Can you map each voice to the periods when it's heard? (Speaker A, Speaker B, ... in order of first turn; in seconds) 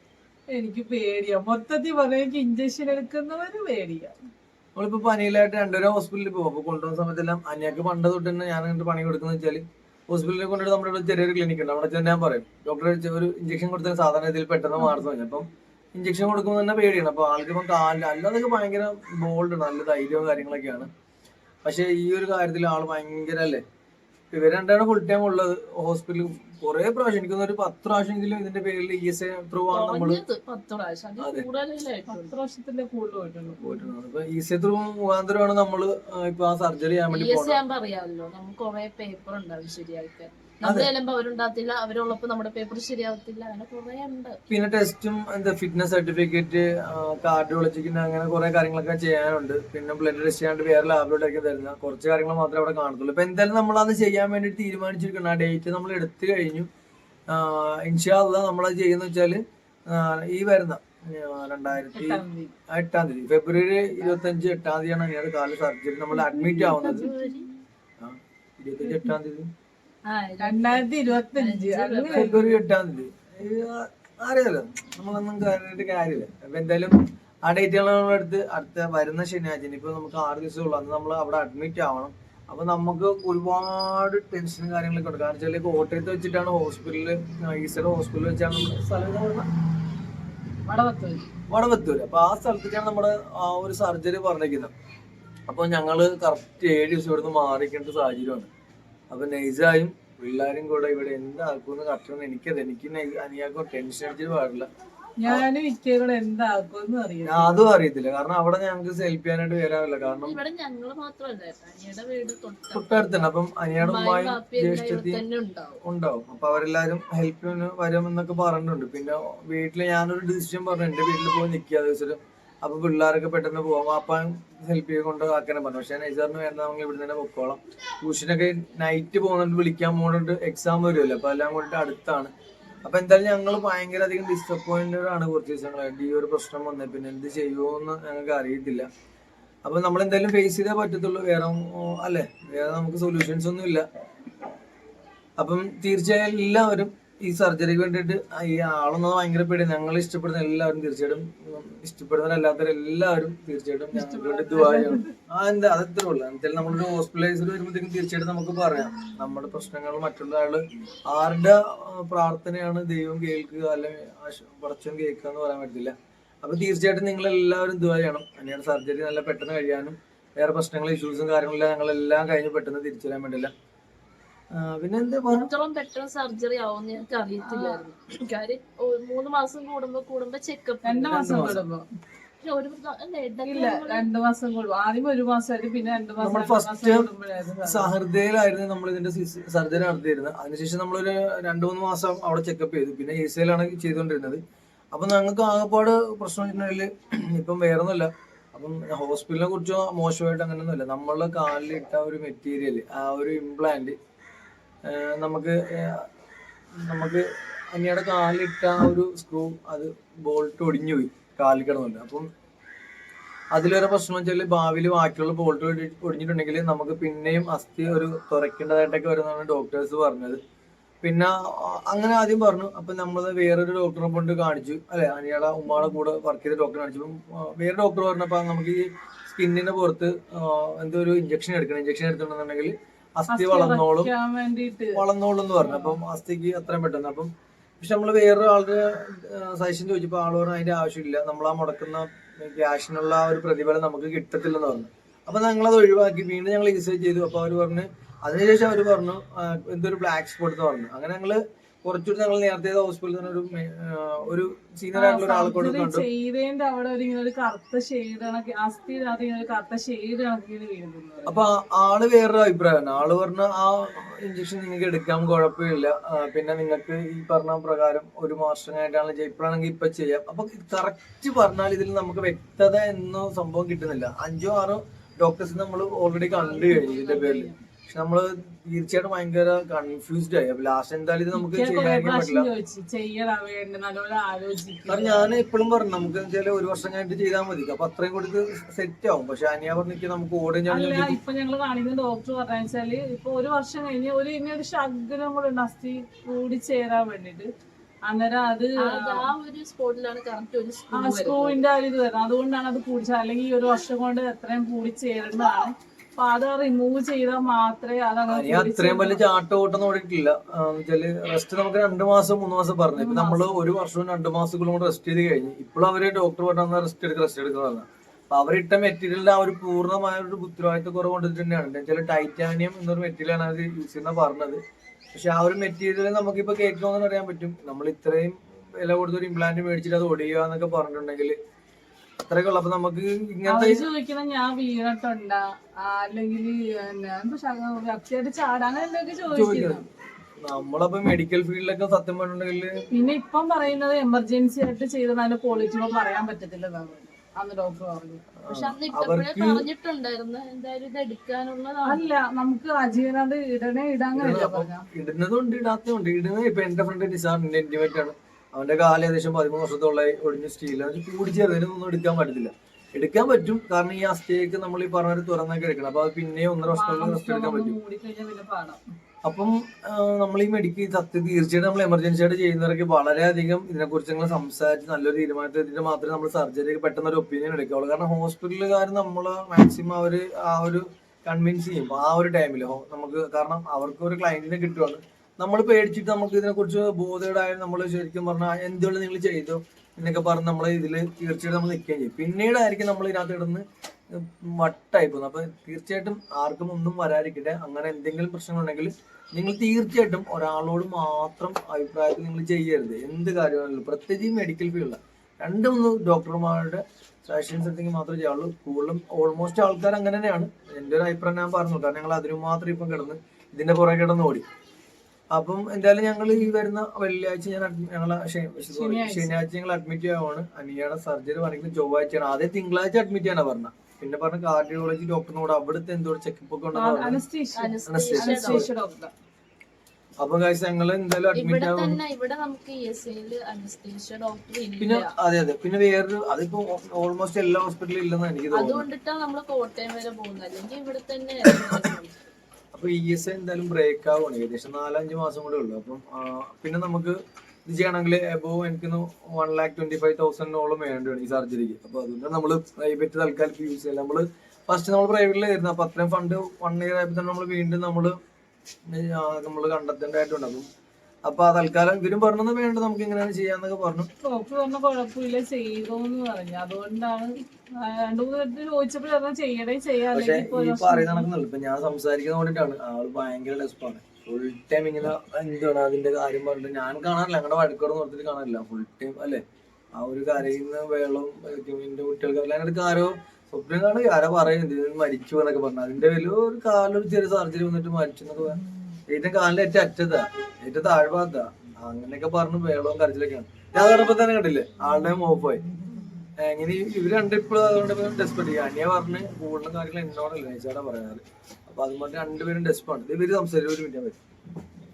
Speaker A: 0.5-4.1, 32.1-33.9, 61.9-62.5, 64.0-64.2, 66.4-67.3, 68.8-69.1, 70.4-72.6, 90.7-91.3, 105.2-107.7, 153.9-155.1, 177.4-177.8, 180.8-181.8, 183.5-187.9, 233.3-235.0, 235.6-236.0, 254.9-261.4, 276.3-277.6, 281.3-285.4, 290.7-297.5, 298.1-299.3, 300.9-309.2, 312.9-313.6, 333.4-339.8, 342.9-348.2, 351.8-354.9, 366.6-368.8, 418.7-419.4, 426.7-429.1, 464.2-471.3
Speaker B: 4.7-20.9, 21.6-23.6, 24.3-30.2, 31.2-31.5, 33.6-37.6, 40.6-40.9, 44.5-56.7, 57.3-67.1, 68.0-69.5, 72.2-89.5, 91.5-94.7, 95.5-98.5, 99.1-104.7, 107.2-110.4, 112.7-115.2, 115.8-132.3, 132.8-138.9, 139.7-143.8, 145.4-173.5, 174.5-175.5, 181.1-181.6, 186.2-194.4, 194.9-204.0, 204.8-206.1, 206.8-212.3, 213.5-220.4, 221.0-234.1, 234.9-256.0, 261.2-282.5, 284.9-291.2, 308.3-324.6, 325.1-331.4, 332.3-333.9, 339.3-339.8, 340.4-342.8, 348.4-349.6, 354.1-367.8, 369.2-414.4, 415.3-427.2, 427.9-428.7, 430.2-432.0, 434.8-438.9, 442.7-458.1, 458.9-460.7, 461.2-464.1, 470.1-479.4, 479.9-495.6, 496.4-504.2
Speaker C: 29.7-32.3, 37.1-44.4, 66.4-67.5, 70.0-72.4, 110.2-115.8, 175.3-181.5, 182.4-184.1, 298.8-301.6, 348.5-352.0, 427.5-428.7, 431.3-435.1, 438.5-442.1